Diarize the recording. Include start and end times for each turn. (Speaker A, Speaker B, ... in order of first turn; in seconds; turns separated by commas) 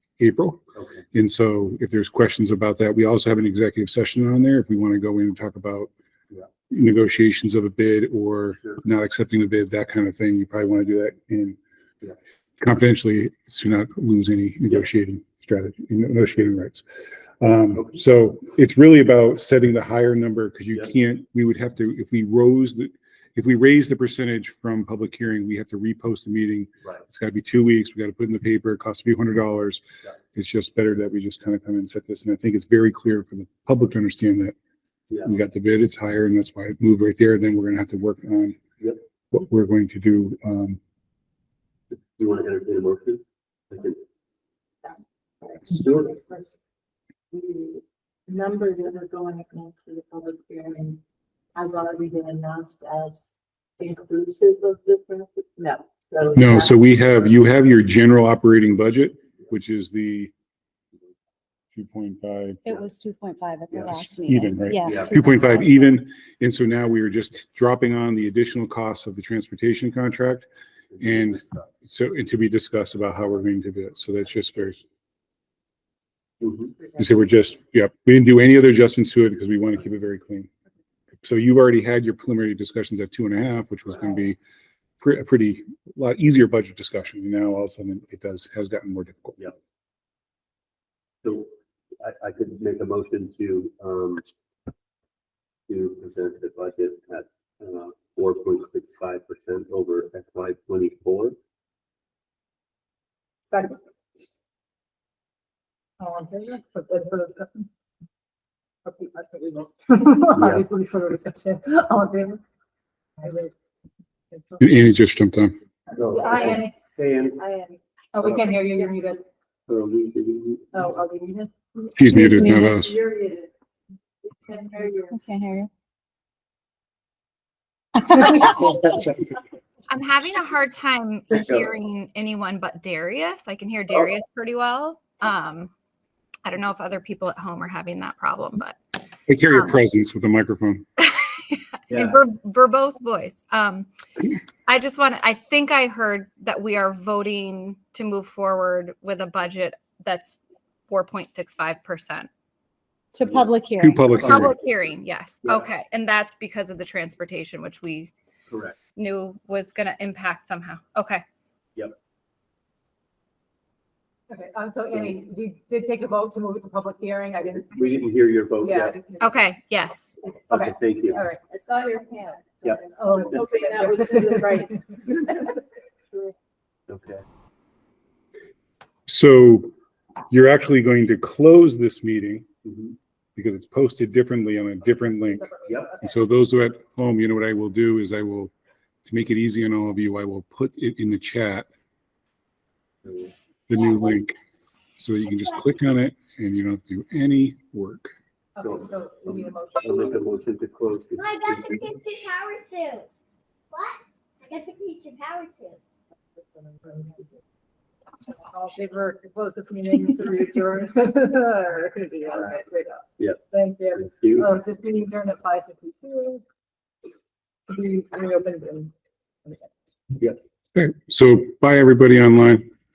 Speaker A: 0.2-5.9, Speaker B: 0.8-1.0, Speaker A: 6.7-11.6, Speaker A: 12.6-16.8, Speaker A: 17.4-29.8, Speaker A: 30.3-34.5, Speaker A: 35.2-38.6, Speaker A: 39.3-40.8, Speaker B: 42.1-44.0, Speaker C: 44.8-46.5, Speaker B: 45.7-46.2, Speaker C: 47.3-51.0, Speaker C: 51.5-56.8, Speaker A: 56.3-60.3, Speaker A: 61.7-62.6, Speaker D: 62.6-65.7, Speaker B: 63.7-64.0, Speaker A: 64.2-70.5, Speaker B: 64.8-65.1, Speaker B: 70.9-71.5, Speaker A: 71.0-74.8, Speaker B: 76.4-76.7, Speaker A: 77.0-80.5, Speaker A: 81.2-84.4, Speaker A: 85.0-89.4, Speaker B: 91.2-91.5, Speaker B: 92.0-94.2, Speaker B: 95.7-101.3, Speaker E: 103.5-103.8, Speaker E: 106.0-107.7, Speaker E: 108.8-112.4, Speaker B: 110.3-110.7, Speaker E: 113.2-113.5, Speaker E: 114.3-114.7, Speaker A: 114.6-115.5, Speaker B: 115.9-117.4, Speaker E: 116.0-116.7, Speaker E: 117.4-119.2, Speaker B: 118.2-118.5, Speaker B: 119.7-120.7, Speaker E: 120.7-122.4, Speaker A: 121.9-122.9, Speaker D: 122.0-122.8, Speaker C: 122.7-123.5, Speaker C: 124.3-125.2, Speaker D: 125.1-125.7, Speaker D: 128.2-128.7, Speaker F: 129.9-135.7, Speaker B: 131.3-131.7, Speaker F: 136.4-138.8, Speaker A: 139.3-140.8, Speaker F: 139.5-139.8, Speaker F: 141.0-143.9, Speaker B: 141.9-142.2, Speaker F: 144.7-152.3, Speaker D: 153.1-154.3, Speaker B: 153.2-153.5, Speaker A: 153.8-154.6, Speaker B: 154.2-154.6, Speaker F: 154.2-158.1, Speaker B: 158.5-158.8, Speaker F: 158.9-161.2, Speaker E: 164.3-169.3, Speaker B: 167.7-169.0, Speaker F: 169.2-170.2, Speaker B: 170.5-171.2, Speaker E: 170.5-171.4, Speaker C: 171.4-175.5, Speaker B: 172.6-173.5, Speaker E: 172.9-175.4, Speaker B: 176.9-177.2, Speaker A: 179.1-179.7, Speaker A: 180.3-182.5, Speaker B: 182.6-182.9, Speaker A: 183.3-185.5, Speaker E: 185.0-186.3, Speaker B: 185.7-185.9, Speaker A: 186.0-188.5, Speaker A: 189.0-191.7, Speaker B: 193.1-193.3, Speaker A: 193.7-194.3, Speaker A: 195.0-198.1, Speaker E: 198.6-200.4, Speaker B: 198.6-201.8, Speaker G: 201.2-203.1, Speaker G: 203.7-205.8, Speaker E: 206.5-207.4, Speaker E: 208.3-216.4, Speaker B: 213.9-214.5, Speaker E: 217.7-218.9, Speaker E: 219.4-219.7, Speaker A: 220.7-222.6